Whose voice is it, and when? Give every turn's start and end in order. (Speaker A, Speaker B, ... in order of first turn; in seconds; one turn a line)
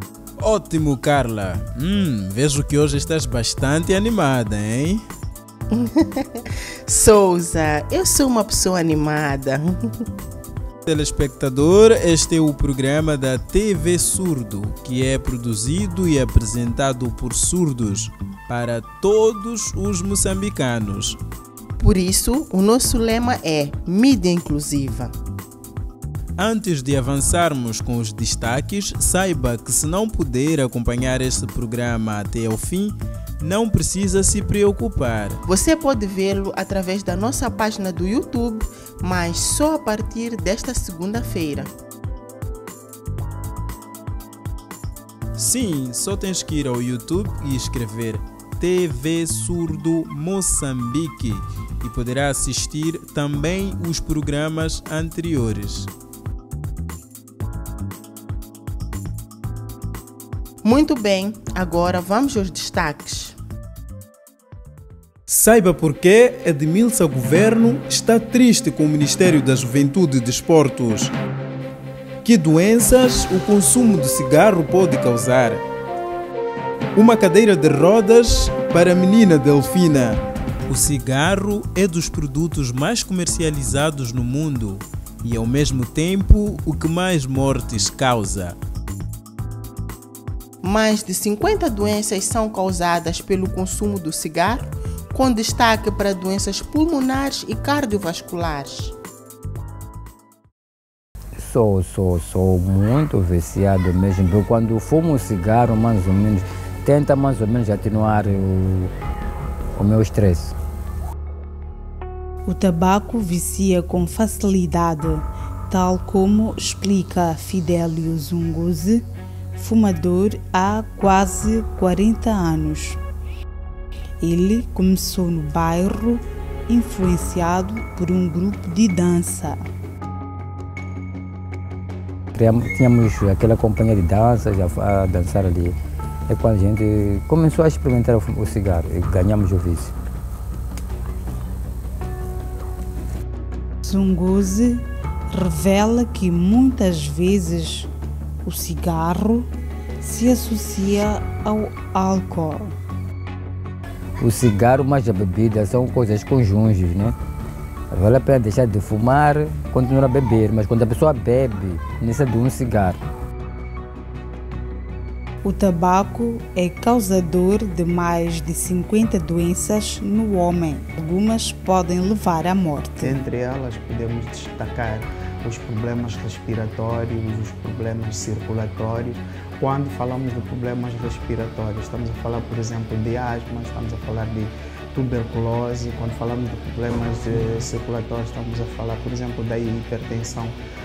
Speaker A: 0.4-5.0
Speaker B: 5.7-10.0
Speaker A: 10.9-21.2
Speaker B: 21.8-25.1
Speaker A: 26.4-35.4
Speaker B: 35.4-41.7
Speaker A: 45.4-55.9
Speaker B: 60.6-63.4
Speaker A: 65.3-71.1
Speaker A: 72.2-75.6
Speaker A: 77.0-88.6
Speaker B: 90.6-98.9
Speaker C: 101.4-108.9
Speaker C: 109.8-110.6
Speaker D: 112.5-123.0
Speaker D: 124.2-129.6
Speaker C: 132.3-135.8
Speaker C: 136.3-139.9
Speaker D: 143.8-147.9
Speaker D: 148.4-149.5
Speaker D: 150.0-152.7
Speaker C: 154.2-157.2
Speaker C: 157.9-163.0
Speaker D: 165.4-173.2
Speaker E: 173.0-190.6